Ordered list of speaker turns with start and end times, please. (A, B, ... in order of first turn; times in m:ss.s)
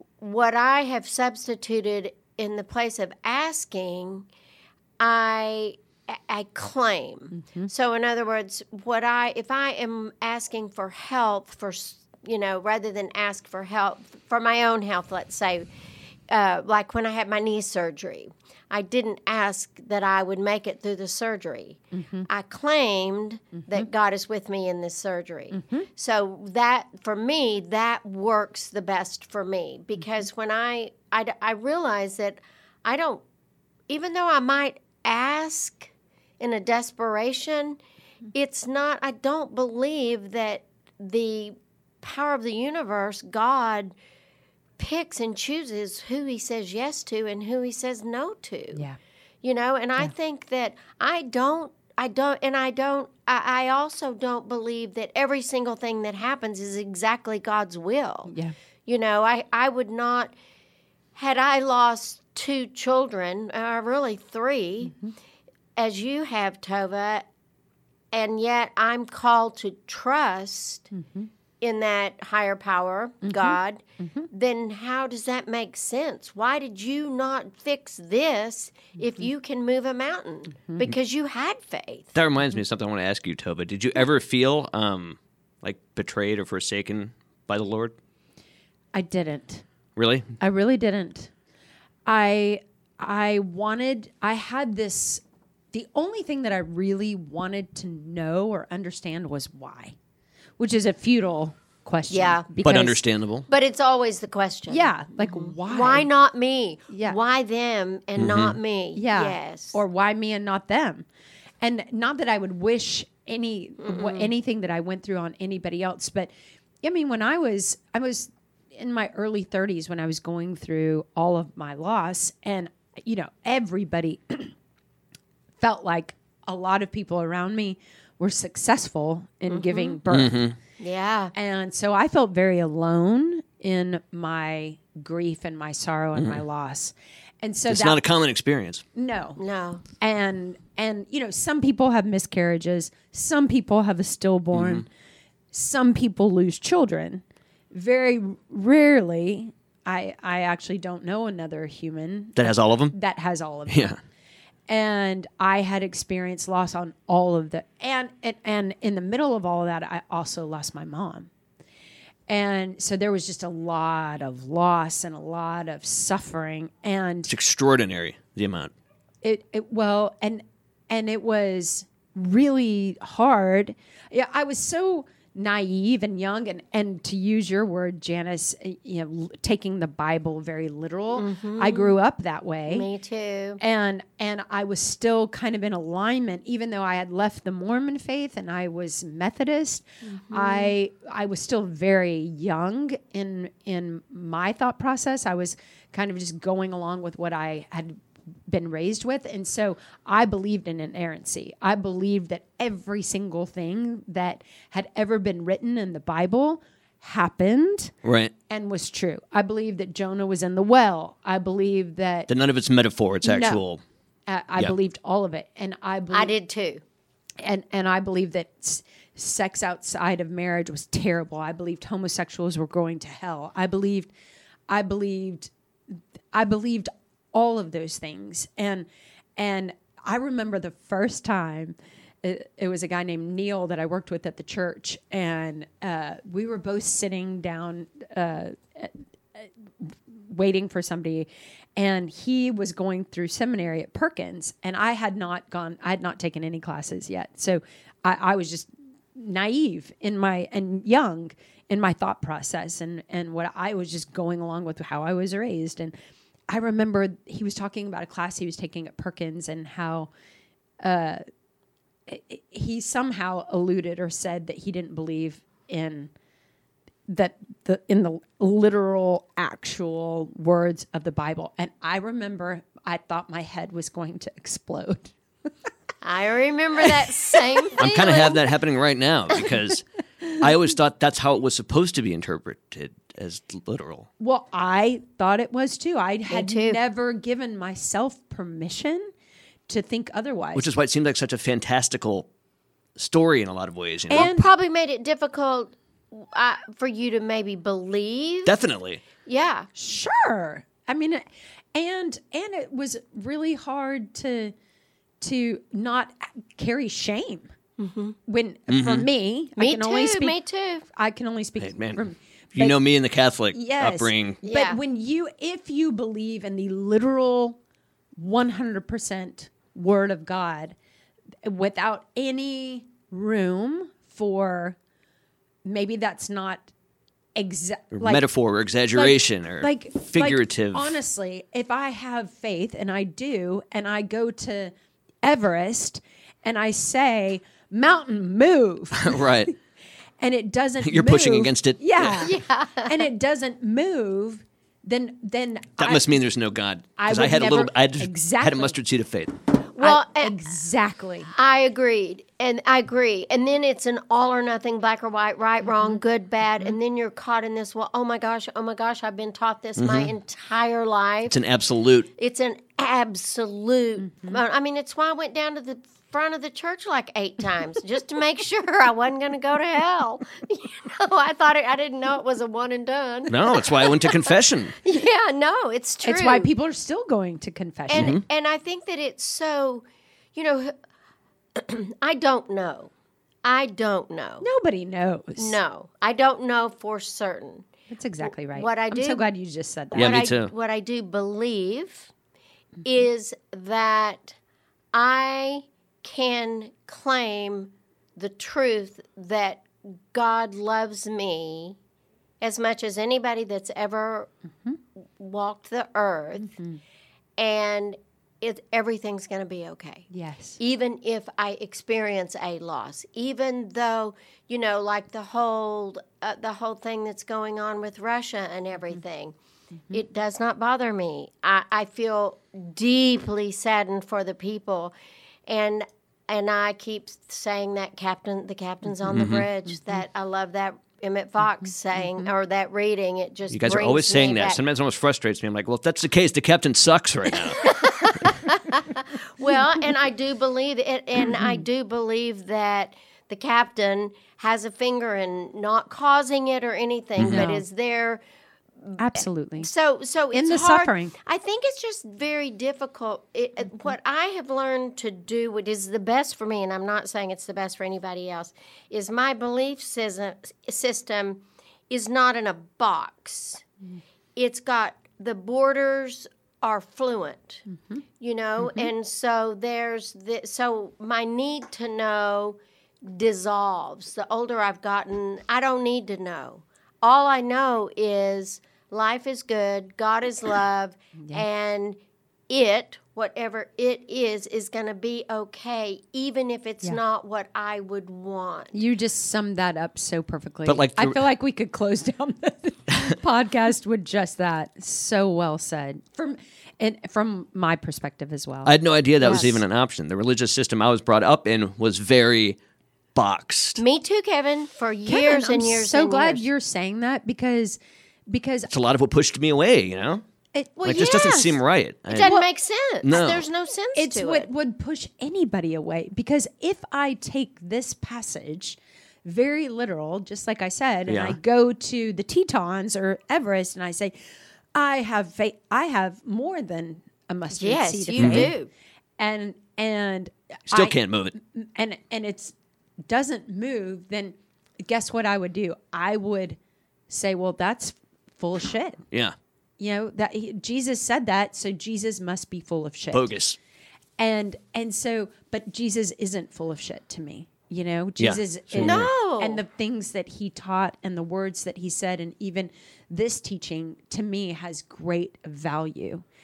0:00.2-0:04.3 A
0:05.0-0:15.7 A
0:07.3-0:07.7 B
0:16.3-0:33.2 A
0:21.9-0:22.3 B
0:25.5-0:25.9 B
0:33.9-0:37.8 A
0:38.3-0:43.9 A
0:44.8-0:48.8 A
0:49.4-0:58.3 A
0:58.3-0:58.5 B
0:58.8-1:00.3 A
1:01.1-1:04.9 A
1:05.8-1:07.2 A
1:08.1-1:10.9 A
1:10.9-1:11.3 B
1:11.6-1:22.1 A
1:13.2-1:14.3 B
1:22.1-1:27.9 C
1:28.9-1:29.6 B
1:30.0-1:30.3 C
1:30.4-1:31.3 B
1:32.0-1:39.9 B
1:40.6-1:43.0 B
1:42.1-1:42.4 A
1:42.6-1:43.5 C
1:43.5-1:49.8 A
1:44.7-1:46.1 B
1:46.9-1:47.2 B
1:48.2-1:48.6 C
1:49.0-1:51.0 B
1:51.6-1:56.3 B
1:53.8-1:54.3 A
1:56.8-2:04.5 B
2:05.6-2:10.5 B
2:09.5-2:10.0 A
2:10.1-2:10.6 C
2:10.8-2:11.3 A
2:11.3-2:18.0 B
2:16.2-2:16.4 C
2:17.7-2:18.8 C
2:18.9-2:19.4 B
2:19.4-2:19.8 A
2:20.0-2:24.9 B
2:24.5-2:24.8 C
2:25.5-2:34.0 B
2:32.4-2:32.9 C
2:33.7-2:34.0 C
2:34.7-2:41.3 B
2:42.3-2:47.3 B
2:47.3-2:48.7 C
2:49.2-3:02.9 B
3:01.1-3:01.9 A
3:02.7-3:03.6 A
3:03.6-3:27.9 B
3:10.1-3:10.7 A
3:28.0-3:28.3 C
3:28.5-3:32.3 B
3:32.3-3:33.8 C
3:33.2-3:33.6 B
3:34.3-3:36.3 B
3:36.1-3:36.8 A
3:37.4-3:44.1 B
3:44.7-4:15.9 B
4:16.5-4:20.1 B
4:20.8-4:21.2 B
4:22.1-4:26.1 B
4:27.1-4:35.1 B
4:36.0-4:38.4 A
4:37.8-4:44.1 C
4:44.2-4:49.1 B
4:46.3-4:46.8 A
4:49.7-4:50.7 B
4:50.5-4:52.3 C
4:53.0-4:54.3 C
4:54.1-4:58.6 A
4:54.1-4:54.5 B
4:58.4-4:59.0 C
4:59.2-4:59.7 A
4:59.7-5:01.2 B
5:01.7-5:04.5 B
5:05.2-5:07.5 B
5:07.8-5:08.2 A
5:08.3-5:10.4 B
5:08.7-5:09.1 C
5:09.6-5:10.8 A
5:10.9-5:12.8 B
5:11.6-5:12.0 C
5:12.5-5:14.4 C
5:13.5-5:17.6 B
5:14.4-5:14.8 A
5:18.2-5:20.7 B
5:21.4-5:24.8 B
5:25.6-5:26.7 B
5:27.4-5:28.3 B
5:27.9-5:30.9 C
5:28.9-5:39.5 B
5:38.9-5:39.5 C
5:40.2-5:46.1 B
5:40.8-5:42.3 C
5:42.2-5:43.0 A
5:45.8-5:49.3 C
5:47.0-5:48.8 B
5:49.7-5:50.5 A
5:49.8-5:51.3 B
5:51.3-6:01.4 A
5:59.8-6:00.1 C
6:01.3-6:02.1 C
6:02.2-6:16.5 A
6:04.0-6:04.4 B
6:13.3-6:14.8 C
6:16.0-6:18.2 B
6:17.9-6:19.8 A
6:17.9-6:18.2 C
6:20.3-6:20.7 A
6:21.5-6:22.9 A
6:23.4-6:24.4 A
6:24.4-6:25.6 B
6:25.4-6:27.6 A
6:27.9-6:30.3 B
6:28.2-6:29.2 A
6:29.9-6:32.1 A
6:29.9-6:30.5 C
6:32.8-6:34.4 A
6:34.9-6:41.8 A
6:42.4-6:44.3 A
6:45.2-6:46.5 A
6:46.5-6:46.8 B
6:47.4-6:50.0 A
6:50.1-6:50.6 B
6:50.6-6:59.3 A
6:59.9-7:04.9 A
7:05.5-7:14.6 A
7:09.1-7:09.5 C
7:13.5-7:17.7 C
7:17.6-7:28.2 A
7:21.4-7:21.6 B
7:27.2-7:27.5 C
7:27.2-7:27.6 B
7:29.0-7:29.7 B
7:29.6-7:43.6 A
7:30.3-7:31.1 B
7:44.4-7:47.6 A
7:47.7-7:48.0 B
7:48.2-8:02.0 A
7:48.6-7:48.9 B
8:02.5-8:08.8 A
8:08.7-8:19.6 B
8:10.6-8:11.2 C
8:18.6-8:22.6 C
8:23.1-8:23.8 C
8:23.8-8:26.4 A
8:25.0-8:28.7 B
8:28.7-8:30.2 C
8:30.5-8:31.6 B
8:30.8-8:32.3 C
8:30.9-8:31.5 A
8:32.1-8:34.5 A
8:32.2-8:32.5 B
8:33.0-8:33.4 C
8:33.9-8:44.1 B
8:41.1-8:41.4 C
8:44.7-8:48.5 B
8:47.6-8:48.7 A
8:48.2-8:48.5 C
8:49.2-8:52.5 B
8:50.7-8:51.3 C
8:53.1-8:56.6 B
8:57.1-8:59.0 B
8:59.8-9:03.3 B
9:03.1-9:03.6 C
9:04.2-9:16.2 B
9:08.2-9:09.1 C
9:08.8-9:09.6 A